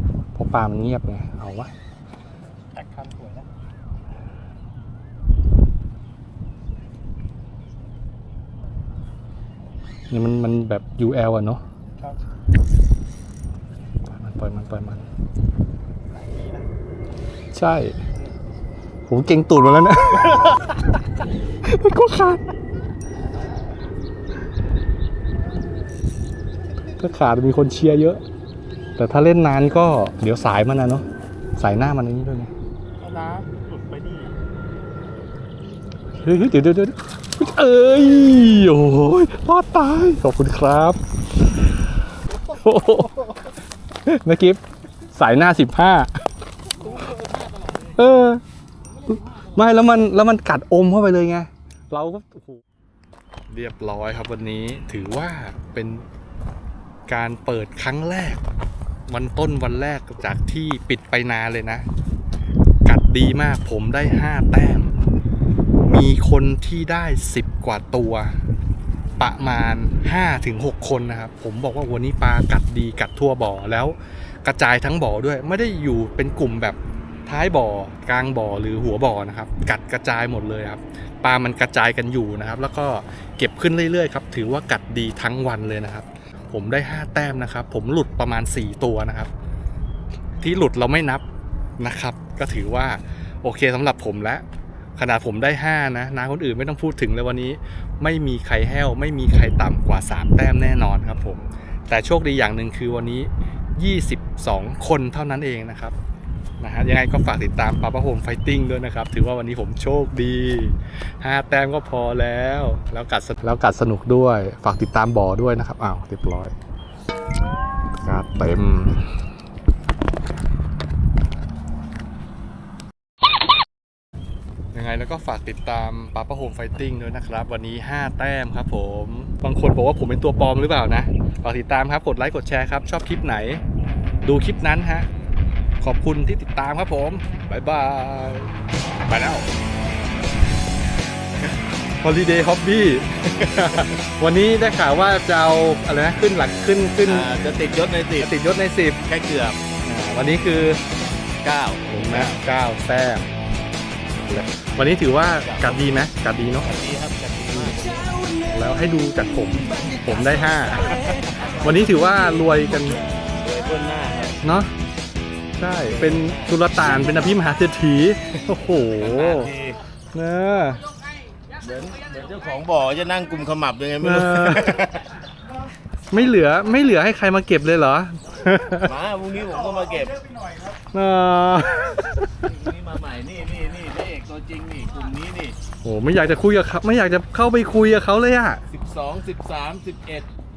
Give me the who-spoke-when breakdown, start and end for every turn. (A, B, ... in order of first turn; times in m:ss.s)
0:00.3-0:01.7 A
0:02.7-0:03.5 B
0:10.1-0:11.6 A
0:14.0-0:15.0 A
0:16.1-0:16.6 B
0:17.5-0:18.0 A
0:19.1-0:20.9 A
0:21.6-0:22.5 A
0:27.0-0:28.2 A
0:29.0-0:31.0 A
0:31.6-0:32.5 A
0:33.0-0:34.3 B
0:36.2-0:41.0 A
0:42.2-0:43.5 B
0:42.6-0:43.1 A
0:44.0-0:44.6 A
0:45.1-0:46.2 A
0:46.7-0:47.9 B
0:48.0-0:48.4 A
0:49.4-0:52.6 A
0:53.5-0:56.1 A
0:57.1-0:58.4 A
0:59.1-1:01.8 A
1:02.8-1:04.9 A
1:05.8-1:08.3 A
1:09.2-1:29.3 A
1:30.4-1:31.2 A
1:31.8-1:34.4 A
1:35.0-1:45.9 A
1:46.6-1:56.5 A
1:57.9-1:59.2 A
2:04.7-2:13.6 A
2:14.2-2:15.1 A
2:15.8-2:18.5 A
2:19.0-2:19.5 A
2:22.0-2:27.4 A
2:23.4-2:23.9 C
2:27.0-2:28.3 C
2:28.2-2:29.0 A
2:29.1-2:29.6 C
2:29.8-2:30.8 A
2:31.4-2:32.4 C
2:31.9-2:33.3 A
2:34.2-2:36.7 A
2:35.4-2:35.9 C
2:36.6-2:38.4 C
2:38.5-2:41.1 A
2:41.6-2:43.0 A
2:43.3-2:44.4 C
2:44.4-2:44.7 A
2:45.6-2:49.5 A
2:45.9-2:46.5 C
2:49.0-2:49.8 C
2:50.1-2:50.9 A
2:51.6-2:55.0 C
2:54.0-2:54.8 A
2:56.1-2:58.9 A
2:58.8-3:00.4 C
3:00.9-3:02.3 A
3:02.4-3:05.6 C
3:05.8-3:08.6 A
3:08.7-3:10.3 C